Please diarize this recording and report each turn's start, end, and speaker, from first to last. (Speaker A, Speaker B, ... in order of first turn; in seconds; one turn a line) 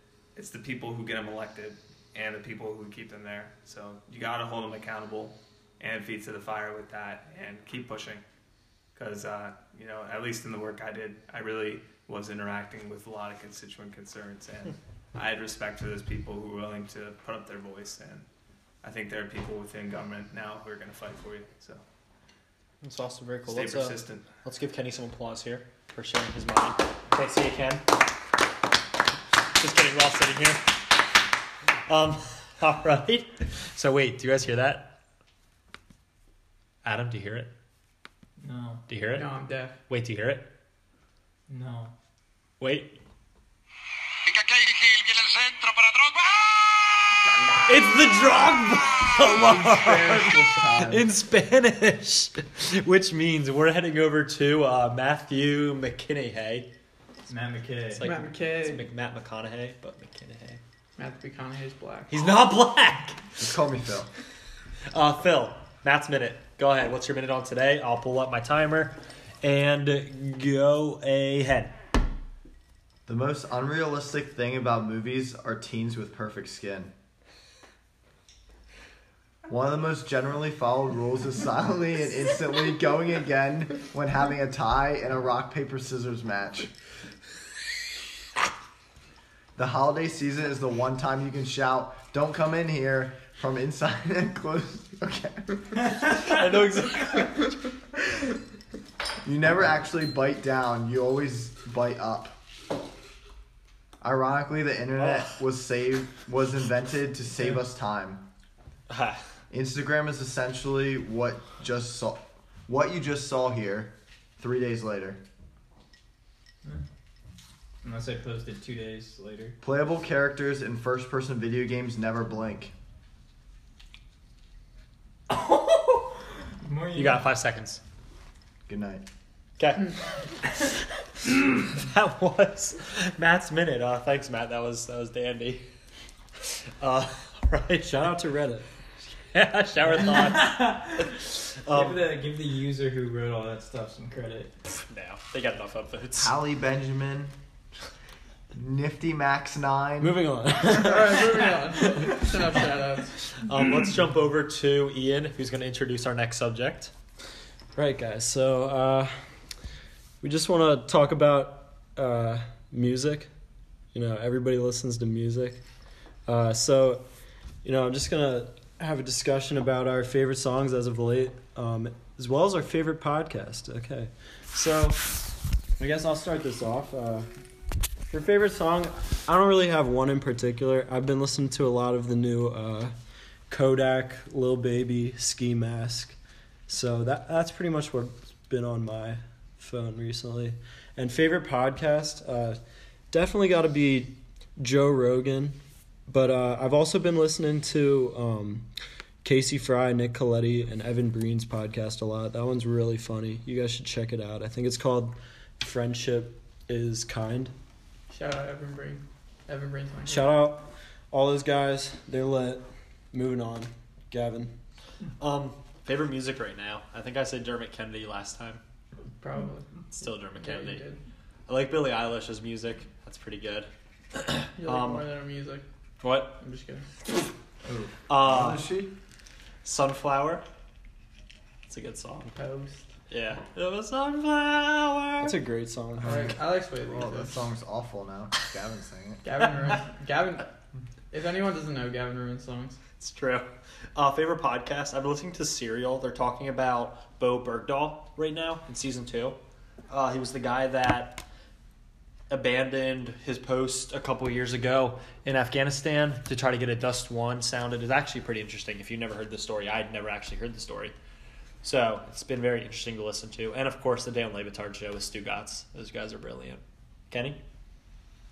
Speaker A: 0.3-8.2
Speaker A: 8.9-18.3
Speaker A: 18.8-21.8
Speaker B: 22.8-28.0
Speaker A: 23.4-24.2
Speaker B: 29.6-31.0
Speaker B: 31.9-34.9
Speaker B: 36.8-37.5
Speaker C: 38.4-38.8
Speaker B: 38.9-39.3
Speaker D: 39.1-39.8
Speaker B: 39.9-40.5
Speaker C: 41.5-41.9
Speaker B: 42.6-42.9
Speaker E: 44.2-47.1
Speaker B: 47.7-56.7
Speaker F: 49.3-51.1
Speaker C: 57.3-58.1
Speaker B: 58.0-60.6
Speaker D: 58.0-58.9
Speaker D: 61.0-62.1
Speaker B: 62.1-63.2
Speaker F: 63.4-64.1
Speaker B: 64.9-71.7
Speaker F: 73.1-76.9
Speaker F: 79.5-86.7
Speaker F: 89.6-96.0
Speaker B: 96.0-97.6
Speaker F: 99.2-102.4
Speaker F: 104.0-108.2
Speaker B: 105.0-105.4
Speaker B: 108.9-109.2
Speaker F: 109.5-115.2
Speaker C: 117.8-119.6
Speaker F: 119.6-122.7
Speaker C: 125.3-127.3
Speaker B: 127.0-127.8
Speaker F: 128.7-129.1
Speaker B: 129.6-130.0
Speaker B: 131.5-135.6
Speaker B: 136.8-138.1
Speaker G: 137.8-138.7
Speaker B: 139.2-142.1
Speaker C: 140.0-141.2
Speaker C: 141.7-144.5
Speaker B: 144.9-146.3
Speaker F: 146.2-147.3
Speaker F: 148.5-150.2
Speaker G: 150.0-152.1
Speaker D: 150.7-153.2
Speaker B: 153.3-156.9
Speaker G: 157.8-159.2
Speaker G: 160.2-163.3
Speaker G: 163.9-165.6
Speaker G: 166.3-167.1
Speaker G: 167.6-177.3
Speaker G: 178.1-182.9
Speaker G: 183.5-186.2
Speaker G: 186.7-192.6
Speaker G: 193.1-198.7
Speaker G: 199.2-207.5
Speaker D: 208.1-210.3
Speaker G: 210.1-214.5
Speaker B: 215.2-218.6
Speaker D: 219.2-221.0
Speaker B: 219.9-220.8
Speaker B: 221.5-225.1
Speaker D: 224.6-225.6
Speaker B: 226.0-226.4
Speaker D: 226.2-226.8
Speaker B: 228.1-228.7
Speaker F: 228.2-228.9
Speaker B: 229.6-230.4
Speaker B: 231.7-232.3
Speaker D: 232.2-232.9
Speaker B: 233.1-235.4
Speaker G: 235.2-236.4
Speaker D: 236.1-237.4
Speaker F: 236.1-239.3
Speaker D: 239.2-240.5
Speaker D: 241.1-242.8
Speaker B: 243.0-249.4
Speaker B: 249.9-251.2
Speaker B: 252.3-260.9
Speaker B: 261.6-267.4